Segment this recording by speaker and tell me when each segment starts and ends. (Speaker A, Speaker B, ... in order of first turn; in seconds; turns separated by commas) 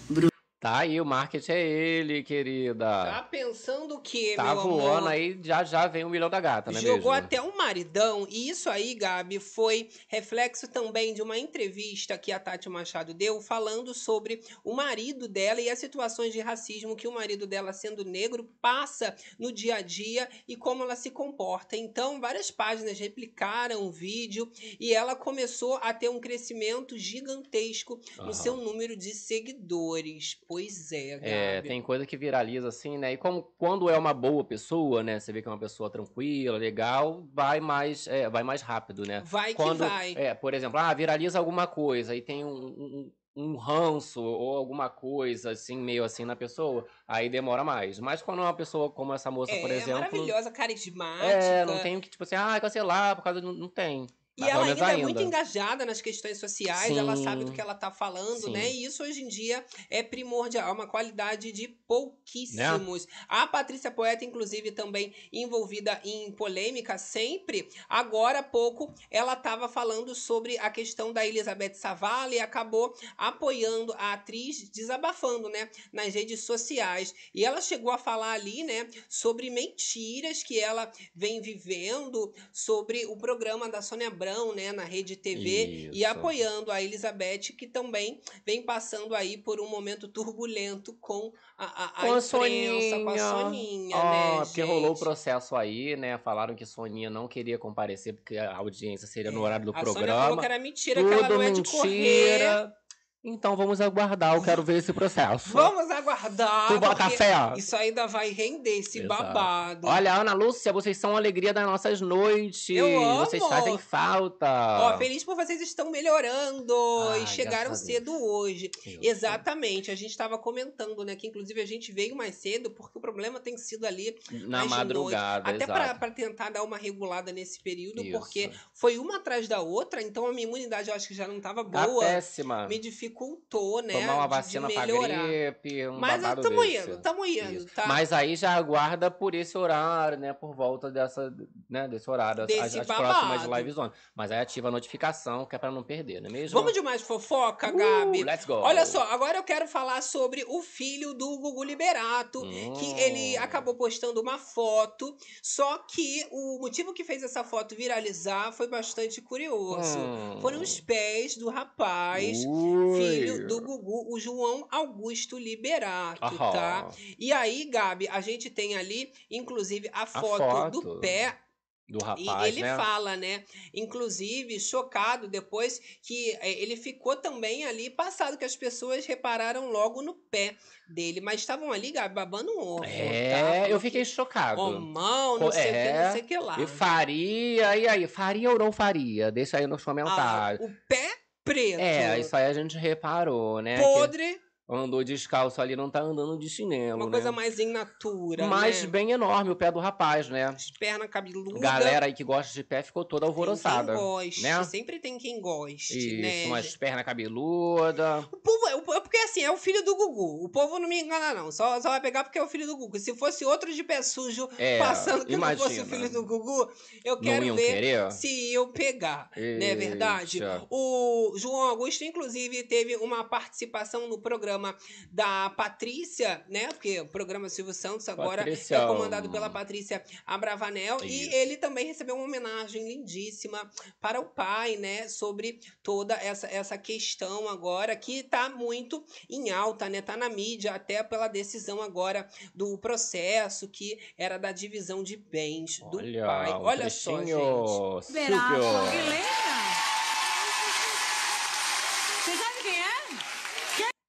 Speaker A: 0.6-3.2, Speaker B: 3.0-5.2, Speaker A: 4.4-7.3, Speaker B: 6.7-31.8, Speaker A: 28.2-28.6, Speaker A: 31.2-50.4, Speaker B: 39.2-40.2, Speaker B: 49.5-51.9, Speaker A: 51.2-55.3, Speaker B: 54.4-95.1, Speaker A: 56.8-57.6, Speaker A: 58.3-58.7, Speaker A: 62.5-62.8, Speaker A: 85.3-86.3, Speaker A: 92.0-105.7, Speaker B: 99.2-102.6, Speaker B: 105.5-110.0, Speaker A: 106.7-107.6, Speaker A: 108.9-115.1, Speaker B: 112.7-113.8, Speaker B: 114.8-135.4, Speaker A: 117.0-118.0, Speaker A: 118.8-119.4, Speaker A: 124.3-126.0, Speaker A: 128.0-128.6, Speaker A: 131.7-132.8, Speaker A: 133.9-146.7, Speaker B: 135.9-138.0, Speaker B: 142.4-143.7, Speaker B: 146.5-171.4, Speaker A: 147.7-149.0, Speaker A: 152.4-153.7, Speaker A: 159.7-160.8, Speaker A: 162.1-163.7, Speaker A: 166.2-167.0, Speaker A: 170.1-171.2, Speaker A: 171.9-172.9, Speaker B: 172.2-186.9, Speaker A: 182.8-190.6, Speaker B: 190.1-192.3, Speaker A: 191.8-194.1, Speaker B: 193.8-194.4, Speaker A: 194.7-197.4, Speaker B: 196.9-198.9, Speaker A: 198.4-200.6, Speaker B: 200.6-202.0, Speaker A: 201.5-204.7, Speaker B: 203.4-206.7, Speaker A: 205.9-208.3, Speaker B: 208.3-247.8, Speaker A: 214.6-216.3, Speaker A: 217.2-218.2, Speaker A: 219.4-220.6, Speaker A: 228.2-229.6, Speaker A: 231.0-231.3, Speaker A: 245.8-249.2, Speaker C: 248.1-249.8, Speaker C: 250.4-250.9, Speaker C: 252.2-253.2